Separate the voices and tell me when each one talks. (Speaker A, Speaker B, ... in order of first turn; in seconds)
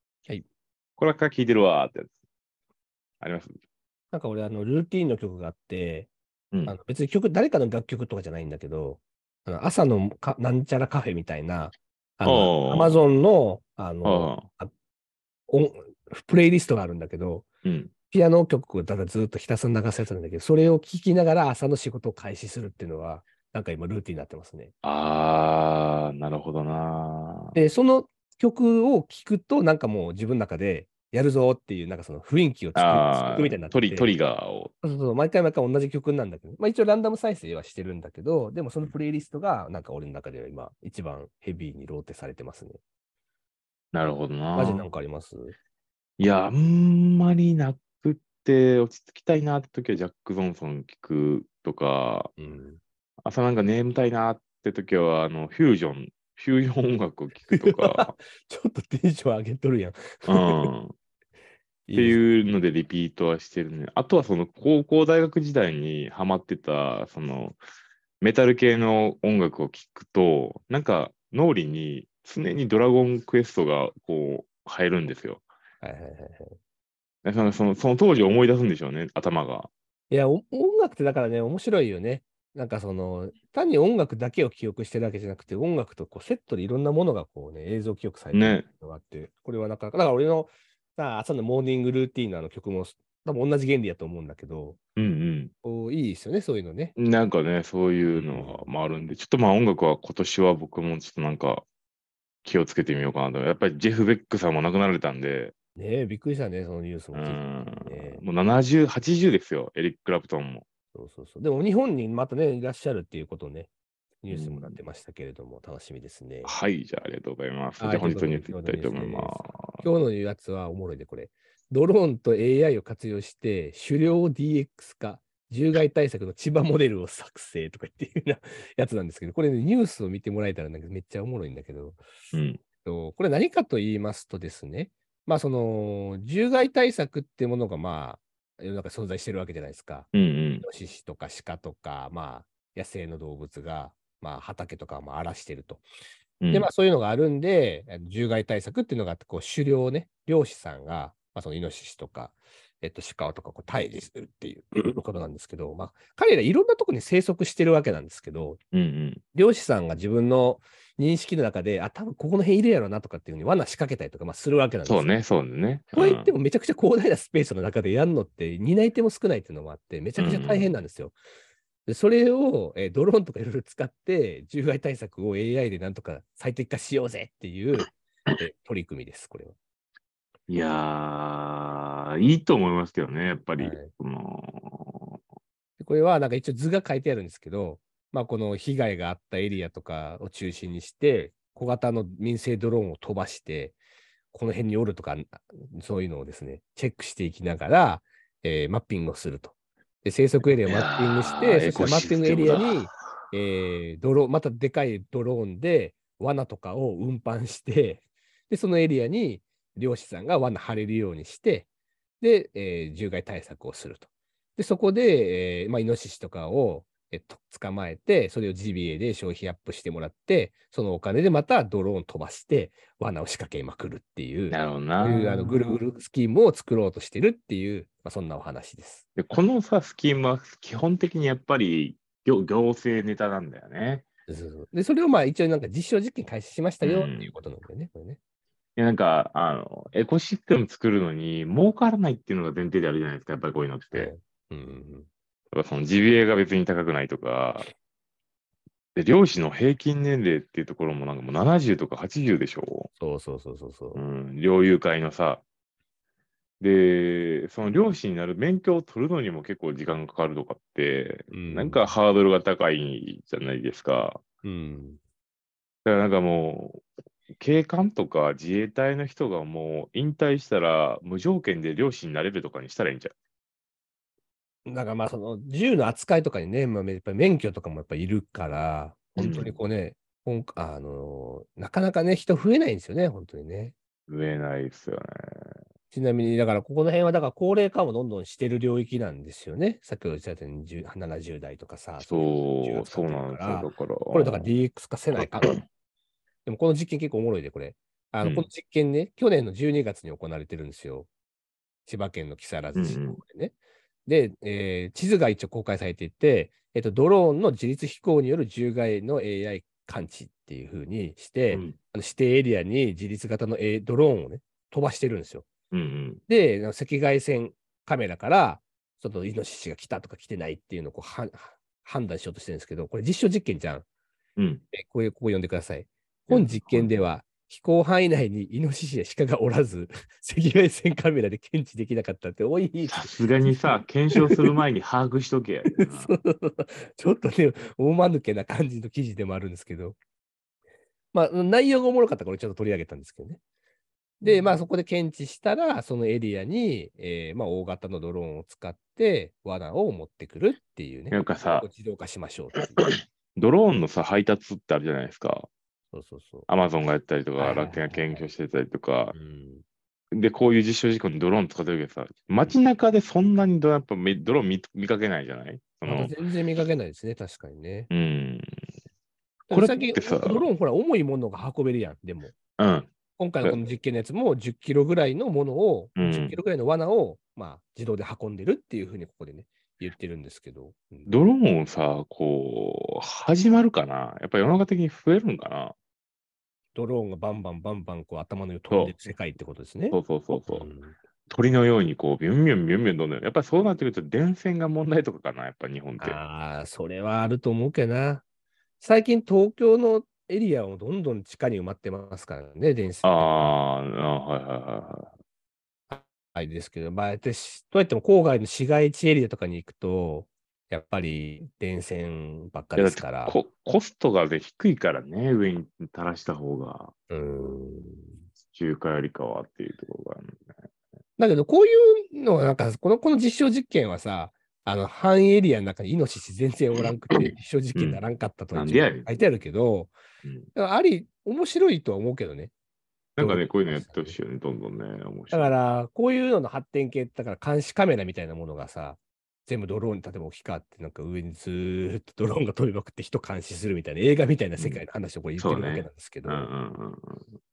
Speaker A: 1.0-2.1, 3.2-3.5, 12.2-13.0, 14.0-14.5, 17.6-17.9, 24.8-27.6, 32.8-34.7, 43.9-44.9, 46.2-52.3, 53.2-58.1, 60.3-61.0, 62.0-67.6, 68.2-75.5, 77.2-79.7, 88.3-88.7, 95.0-95.5, 97.0-101.7, 102.5-105.5, 107.1-110.7, 114.3-114.8, 116.4-119.8, 132.3-132.6, 140.1-140.7, 146.4-146.7, 158.7-159.2, 164.9-166.3, 170.2-170.7, 180.5-185.2, 200.7-202.8, 224.5-225.8, 229.2-234.1, 236.8-237.3, 238.8-244.1, 245.5-247.7, 249.0-252.9, 253.9-255.4, 256.6-264.2, 265.9-266.8, 267.4-273.1, 279.2-279.6, 284.1-285.1, 292.0-294.5, 295.2-295.6, 298.2-298.5, 302.8-303.2, 311.5-311.8, 315.7-316.2, 324.4-324.6, 326.3-326.9, 332.9-336.2, 344.2-344.6, 351.1-351.7, 353.4-355.5, 356.5-359.1, 360.1-366.1, 367.9-368.6, 369.5-370.4, 372.6-372.9, 376.0-376.4, 381.1-385.8, 389.9-390.7, 391.3-396.2, 403.0-405.1, 412.8-416.9, 418.5-420.5, 427.8-428.0, 428.5-429.2, 433.2-435.6, 444.6-444.8, 445.4-447.2
Speaker B: 4.1-6.1, 6.7-14.7, 15.5-17.5, 18.1-24.7, 27.6-34.1, 34.8-42.8, 44.5-45.5, 52.4-52.8, 57.5-60.7, 61.9-62.2, 75.8-76.6, 80.1-94.8, 95.6-97.0, 98.1-98.7, 105.8-108.2, 110.9-113.7, 114.2-116.5, 117.8-132.0, 132.8-140.1, 140.6-145.8, 146.5-158.6, 159.3-165.1, 165.9-171.2, 171.9-179.6, 183.6-183.9, 185.8-193.8, 194.3-211.7, 212.2-229.0, 234.3-238.2, 243.9-245.1, 253.0-254.0, 261.3-261.9, 264.4-265.0, 274.7-283.8, 285.9-295.6, 296.5-301.1, 301.9-315.5, 316.3-323.9, 324.7-333.1, 334.1-334.5, 335.7-340.0, 341.1-343.4, 344.2-352.9, 355.9-356.5, 357.4-358.3, 359.1-359.6, 365.9-367.9, 369.5-372.4, 373.2-381.1, 386.8-390.0, 390.5-391.0, 396.0-398.2, 398.8-403.6, 405.9-413.4, 417.1-418.1, 421.2-429.9, 430.6-432.5, 433.2-434.2, 435.3-446.5